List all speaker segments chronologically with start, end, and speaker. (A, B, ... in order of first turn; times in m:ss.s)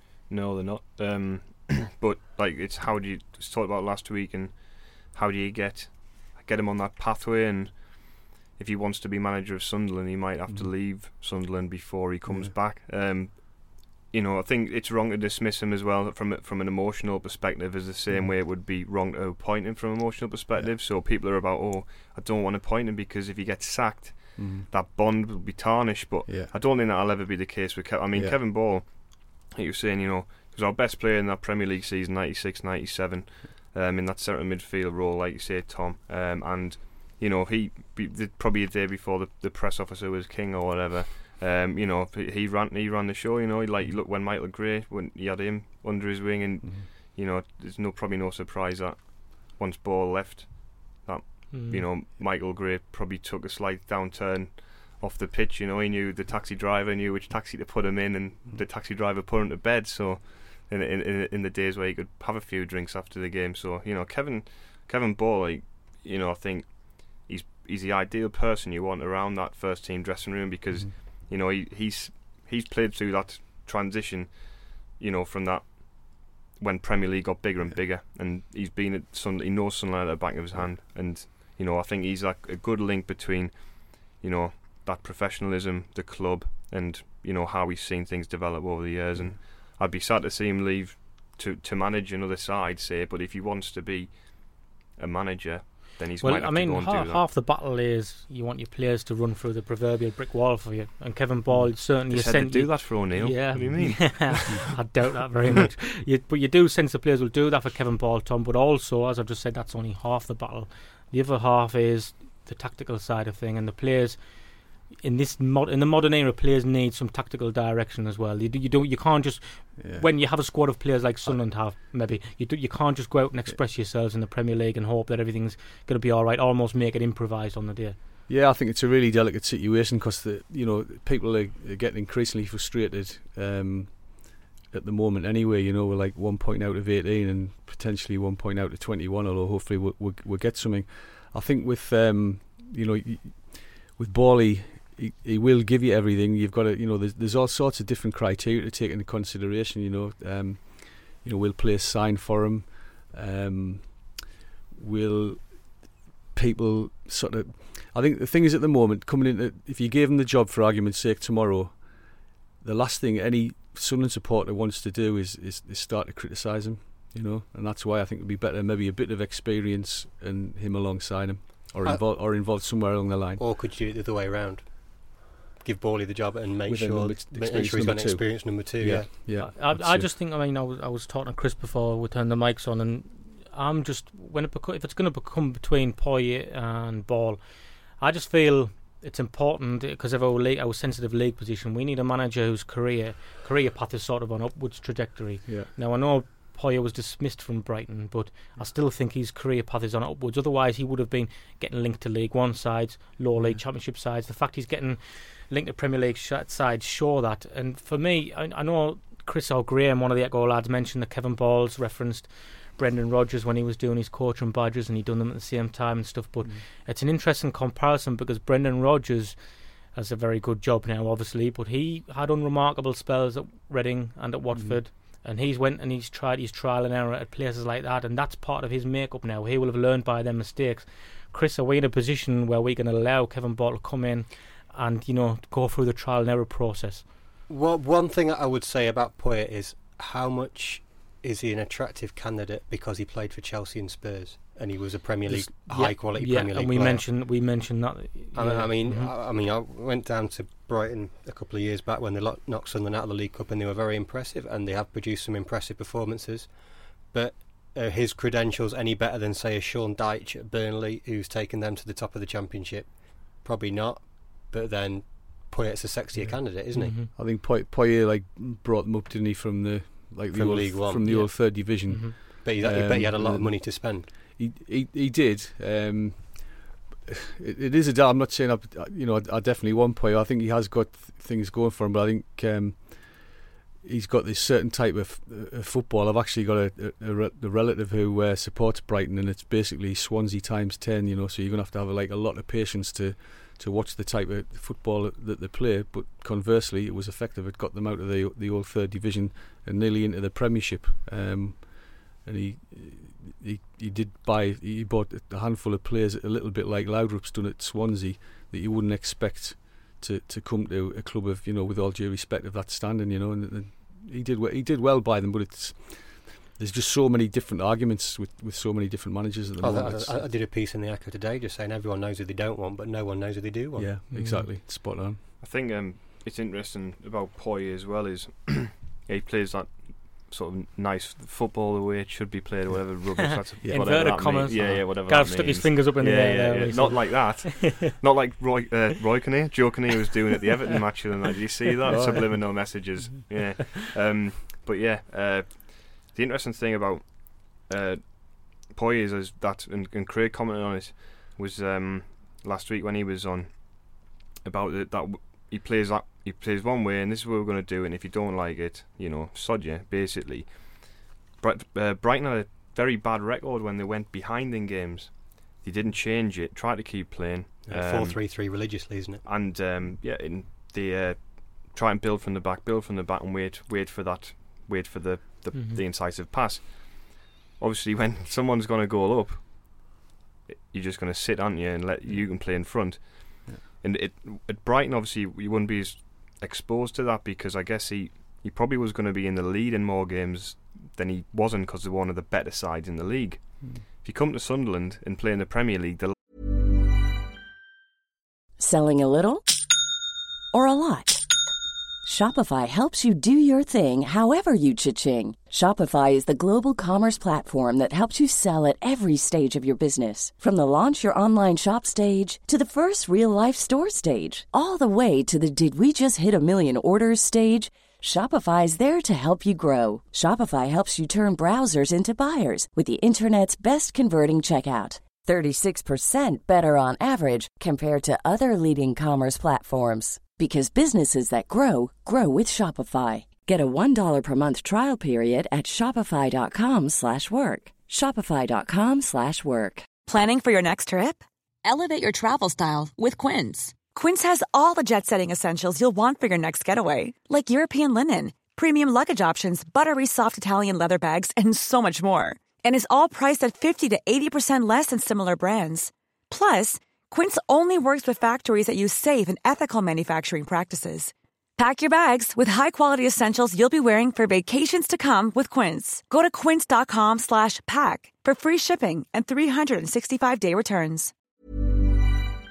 0:00.3-1:37.2 A
0:10.5-0:10.8 B
0:12.2-0:12.6 B
0:18.1-0:18.4 B
0:24.4-0:24.7 B
0:26.2-0:26.5 B
0:28.1-0:28.4 B
0:46.6-0:46.9 B
0:51.5-0:51.8 C
1:36.2-2:08.0 C
1:41.5-1:41.8 B
1:42.0-1:44.6 A
1:59.8-2:00.5 B
2:01.2-2:01.7 B
2:08.3-2:53.4 B
2:52.6-2:59.1 D
2:56.6-3:00.1 B
2:59.3-3:57.0 C
3:23.3-3:23.6 B
3:44.5-3:44.8 B
3:57.5-4:07.1 D
4:05.2-4:05.5 B
4:05.4-4:09.1 C
4:08.3-4:26.9 D
4:26.2-5:20.3 B
4:26.7-4:27.1 C
4:30.3-4:31.1 D
4:31.0-4:32.2 C
4:32.4-4:34.1 D
5:19.6-5:23.9 D
5:23.8-5:25.2 B
5:24.1-5:24.5 C
5:25.4-6:08.2 A
5:33.4-5:37.9 C
5:33.6-5:34.8 B
5:41.8-5:42.8 B
6:07.6-6:09.2 D
6:09.2-6:36.1 A
6:15.5-6:15.8 C
6:38.6-6:39.5 E
6:40.5-6:41.2 E
6:42.0-7:19.9 E
7:20.0-7:51.1 F